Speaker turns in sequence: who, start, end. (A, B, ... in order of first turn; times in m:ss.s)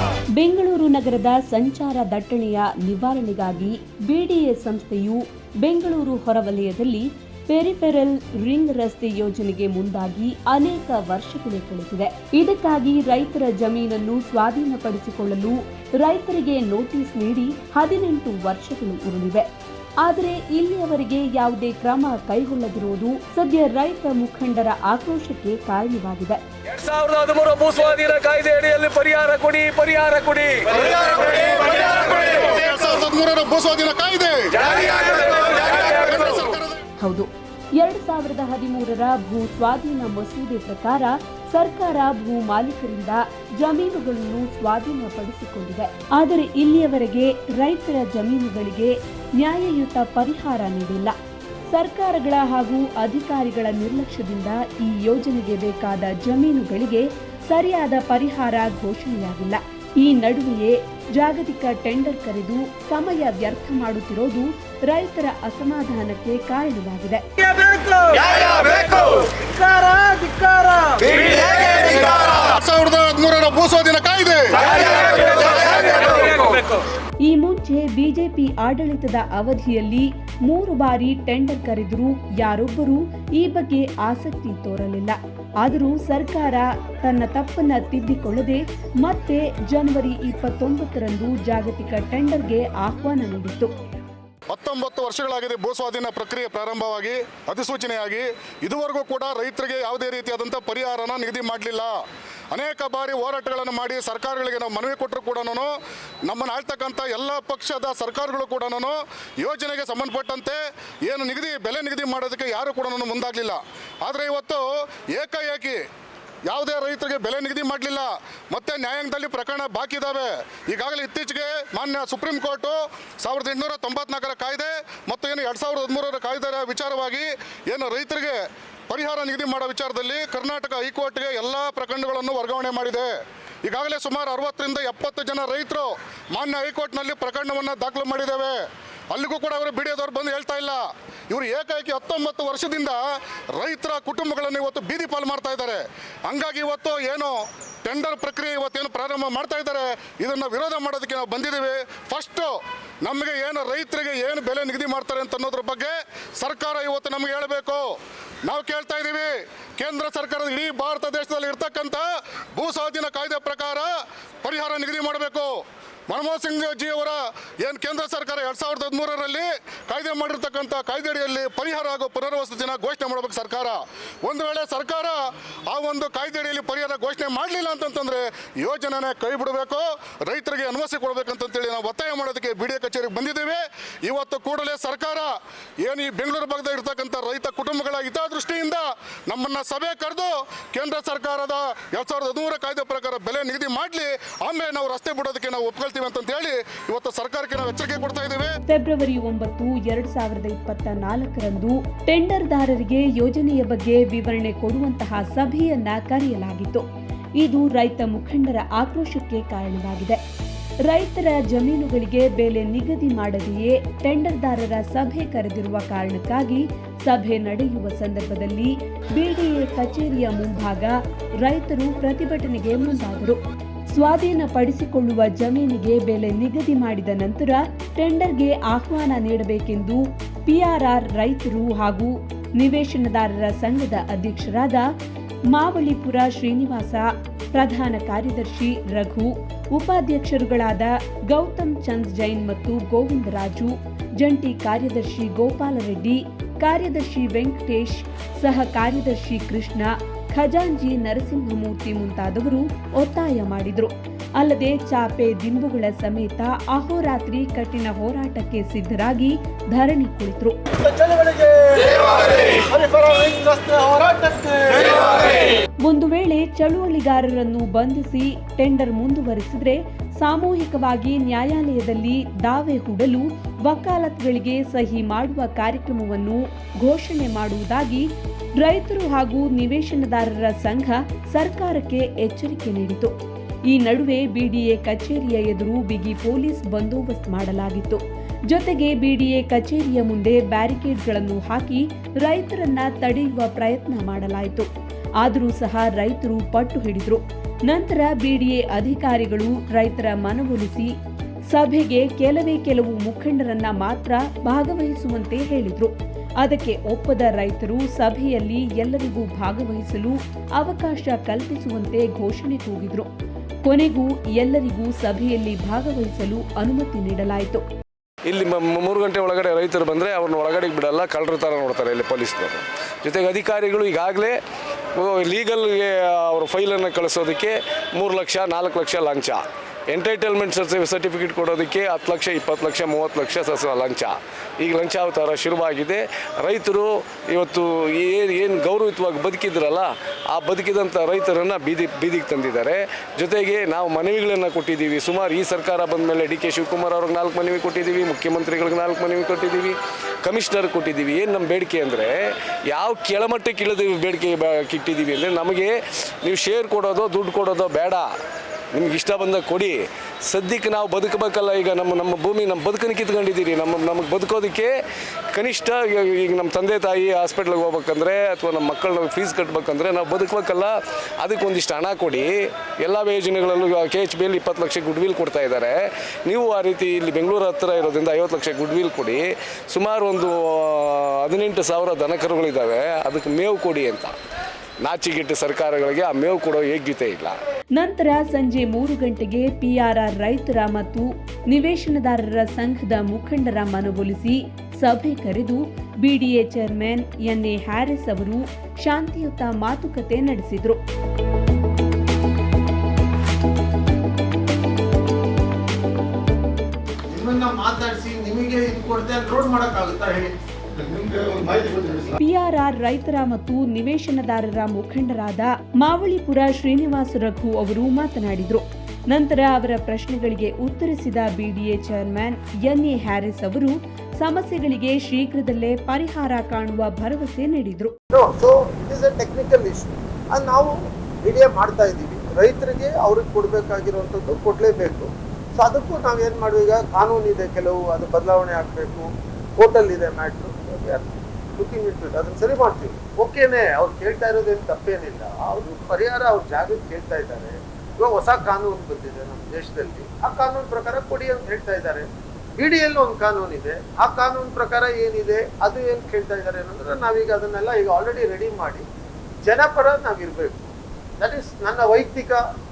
0:00.4-0:19.5 A
0:20.0-0:26.4 A
0:26.7-0:32.3 B
0:31.8-0:36.8 C
0:37.0-0:51.2 A
0:51.7-1:07.2 A
1:07.4-1:08.2 D
1:08.2-1:09.4 B
1:09.4-1:10.5 D
1:11.0-1:11.7 B
1:11.6-1:16.5 C
1:17.2-1:33.7 A
1:34.5-1:42.0 C
1:42.5-1:55.8 C
1:56.5-2:08.4 C
2:08.9-2:13.1 C
2:13.6-2:18.6 C
2:19.1-2:23.0 C
2:23.6-2:37.9 C
2:38.4-2:43.9 C
2:44.4-2:45.6 C
2:46.1-3:05.3 C
3:05.8-3:18.5 C
3:18.7-3:26.9 A
3:27.4-3:30.2 A
3:30.8-3:54.9 A
3:55.5-4:20.6 A
4:20.8-4:25.6 B
4:25.8-4:43.1 A
4:43.7-4:54.7 A
4:55.2-5:00.9 A
5:01.5-5:13.1 A
5:13.6-5:17.6 A
5:18.2-5:24.4 B
5:25.0-5:58.1 B
5:58.7-6:04.7 B
6:05.3-6:24.2 B
6:24.8-6:27.4 B
6:27.8-6:40.8 A
6:47.1-6:52.2 D
6:52.2-7:08.0 A
7:08.1-7:38.8 D
7:39.4-7:42.4 D